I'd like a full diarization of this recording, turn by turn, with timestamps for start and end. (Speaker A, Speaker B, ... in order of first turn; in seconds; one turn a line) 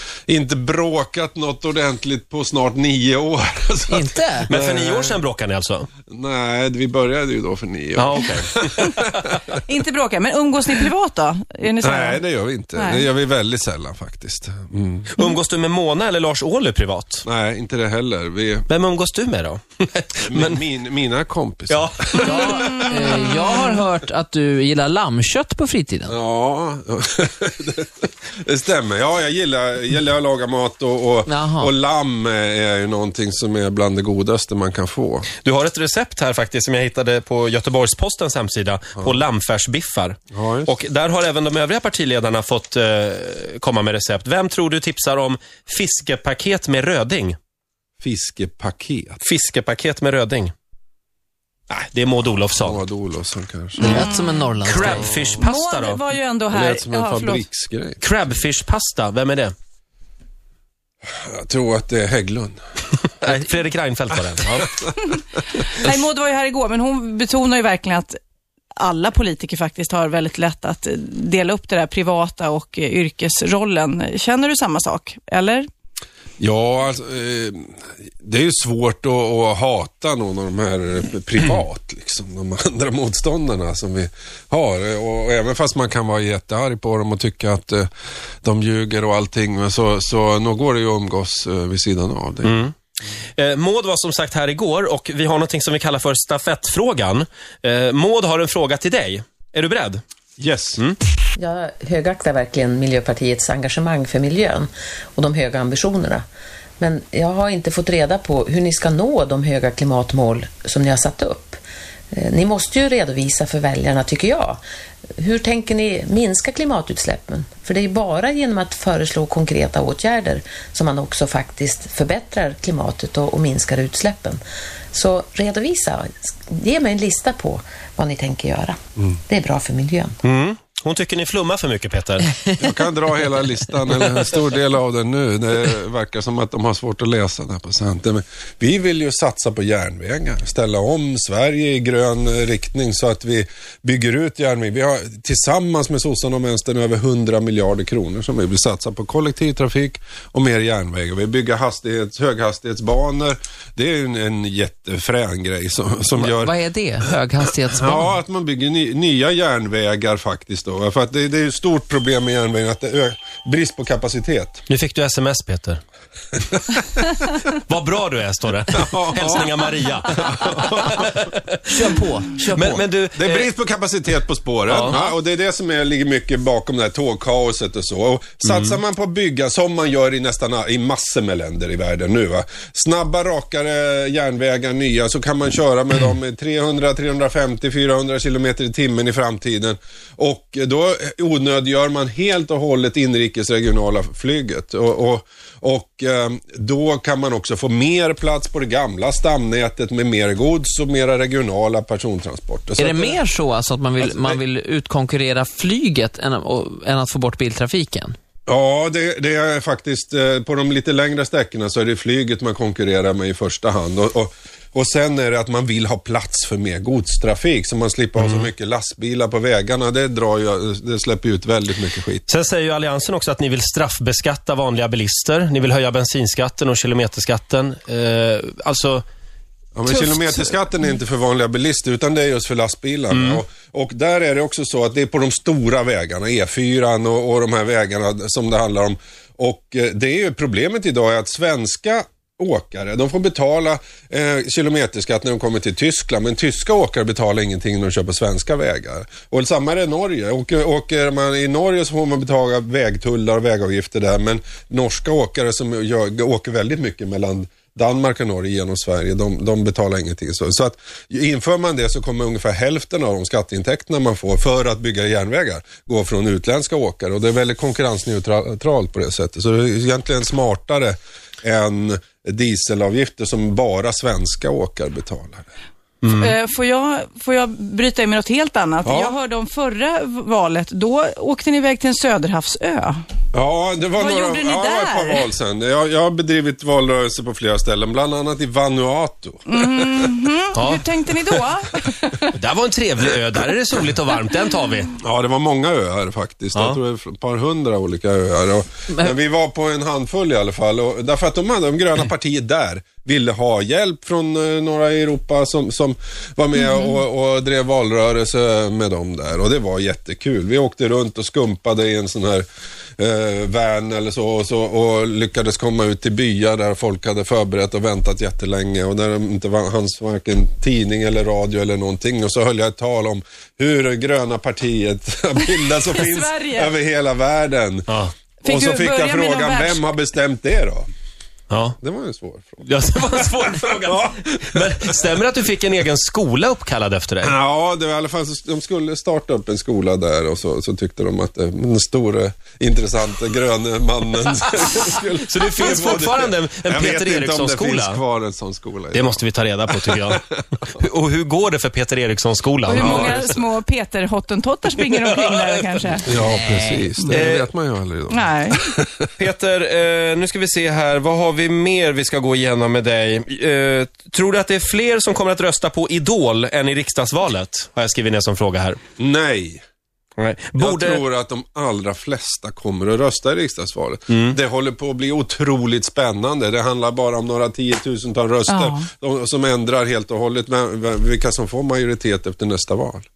Speaker A: 0.3-5.2
Speaker B: 3.9-4.5
Speaker C: 4.5-5.9
Speaker A: 6.1-9.6
Speaker C: 8.0-9.2
Speaker D: 9.7-12.2
Speaker A: 11.8-15.1
Speaker D: 12.8-13.1
Speaker C: 15.2-17.2
Speaker A: 17.2-18.7
Speaker C: 18.7-20.6
Speaker A: 20.2-23.2
Speaker C: 21.7-22.6
Speaker B: 22.2-26.1
Speaker A: 26.1-35.3
Speaker B: 31.3-31.7
Speaker C: 35.4-47.4
Speaker A: 40.3-40.7
Speaker A: 48.0-49.2
Speaker C: 49.2-50.5
Speaker C: 51.7-52.8
Speaker A: 52.6-54.1
Speaker B: 53.8-55.1
Speaker D: 53.8-54.2
Speaker C: 54.6-56.0
Speaker D: 55.4-57.5
Speaker A: 56.5-58.0
Speaker C: 58.0-59.5
Speaker A: 61.1-62.6
Speaker C: 63.2-64.8
Speaker D: 65.7-68.2
Speaker D: 68.8-75.7
Speaker A: 76.4-87.9
Speaker A: 88.4-92.6
Speaker C: 92.4-92.8
Speaker C: 93.4-100.0
Speaker A: 100.4-100.8
Speaker E: 101.4-106.2
Speaker E: 106.8-111.6
Speaker E: 112.1-114.6
Speaker E: 115.2-124.4
Speaker E: 124.9-130.2
Speaker C: 130.2-132.3
Speaker A: 132.6-156.5
Speaker B: 156.2-158.1
Speaker A: 157.7-164.7
Speaker C: 164.7-165.8
Speaker A: 166.5-167.1
Speaker C: 167.4-171.6
Speaker A: 168.7-171.1
Speaker B: 171.7-172.8
Speaker C: 172.5-173.5
Speaker A: 173.2-203.2
Speaker C: 174.7-175.0
Speaker C: 178.4-178.8
Speaker B: 202.8-208.2
Speaker A: 204.0-204.4
Speaker A: 208.5-222.3
Speaker C: 218.2-218.5
Speaker C: 222.3-229.0
Speaker A: 229.8-275.5
Speaker D: 229.9-230.6
Speaker C: 233.1-233.4
Speaker C: 276.0-276.3
Speaker D: 276.1-283.0
Speaker A: 278.9-279.1
Speaker A: 283.3-290.1
Speaker D: 284.0-285.3
Speaker D: 289.5-292.3
Speaker C: 290.5-290.8
Speaker C: 292.3-294.9
Speaker A: 295.0-312.4
Speaker A: 313.0-330.9
Speaker D: 325.8-326.7
Speaker C: 327.9-328.1
Speaker D: 328.4-329.8
Speaker C: 331.5-331.8
Speaker A: 331.8-335.1
Speaker C: 332.6-337.4
Speaker A: 337.2-350.2
Speaker C: 345.2-348.0
Speaker C: 348.9-350.2
Speaker C: 350.8-353.3
Speaker D: 352.7-356.1
Speaker A: 352.8-353.3
Speaker C: 355.0-355.4
Speaker A: 356.1-359.1
Speaker B: 356.2-356.9
Speaker C: 357.1-357.5
Speaker D: 358.1-358.7
Speaker C: 359.2-368.8
Speaker A: 369.0-369.6
Speaker C: 370.2-371.0
Speaker A: 370.6-383.1
Speaker C: 374.1-374.4
Speaker D: 378.5-378.9